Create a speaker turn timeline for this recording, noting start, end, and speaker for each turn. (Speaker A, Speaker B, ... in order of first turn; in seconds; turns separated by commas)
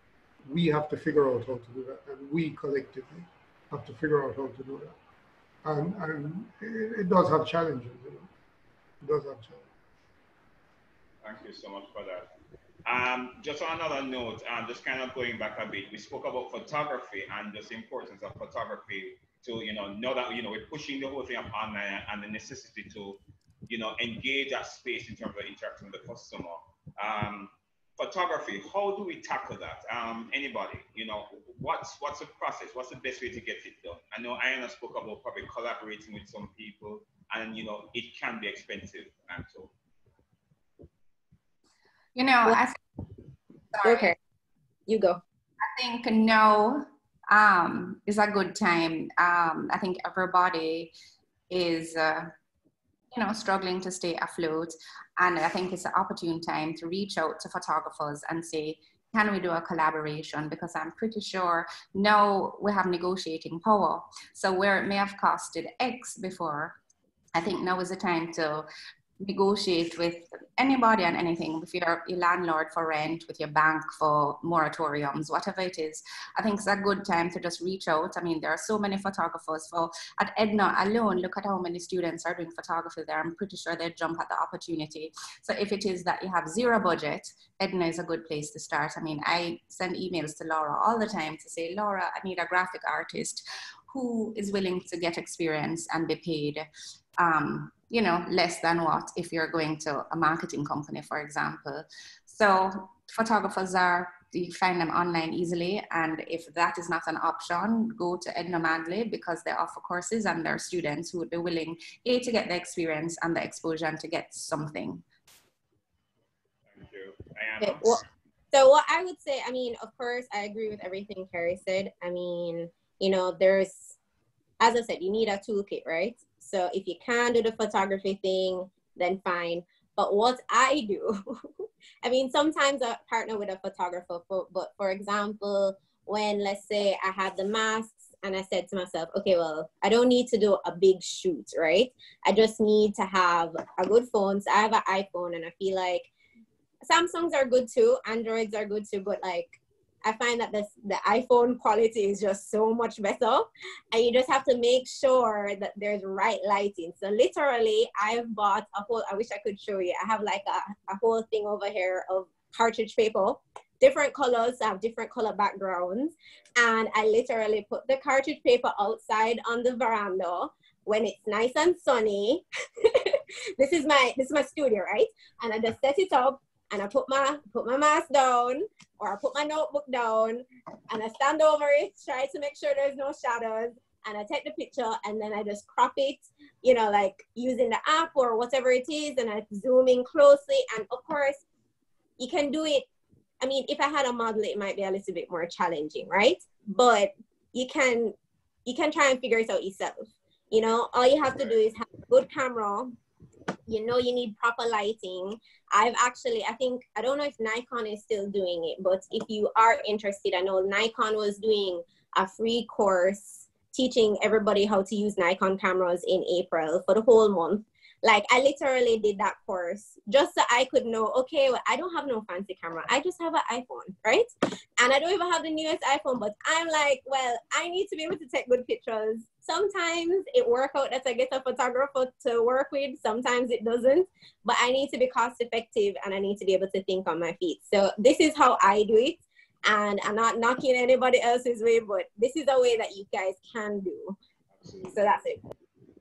Speaker A: 0.5-4.9, Speaker A: 5.6-8.3, Speaker A: 9.0-9.7, Speaker B: 11.2-12.3, Speaker B: 12.8-39.7, Speaker C: 42.1-42.8, Speaker C: 43.7-44.1, Speaker D: 43.8-44.1, Speaker D: 44.9-45.2, Speaker C: 45.6-50.9, Speaker C: 51.5-52.3, Speaker C: 53.1-66.8, Speaker C: 67.3-68.7, Speaker C: 69.2-96.7, Speaker C: 97.2-115.0, Speaker B: 116.7-118.0, Speaker D: 117.6-124.0, Speaker D: 124.6-131.4, Speaker D: 132.0-146.1, Speaker D: 146.8-191.4, Speaker D: 192.2-192.8, Speaker D: 193.4-202.9, Speaker B: 201.2-201.6, Speaker D: 203.7-244.2, Speaker B: 244.5-245.2, Speaker D: 244.9-245.4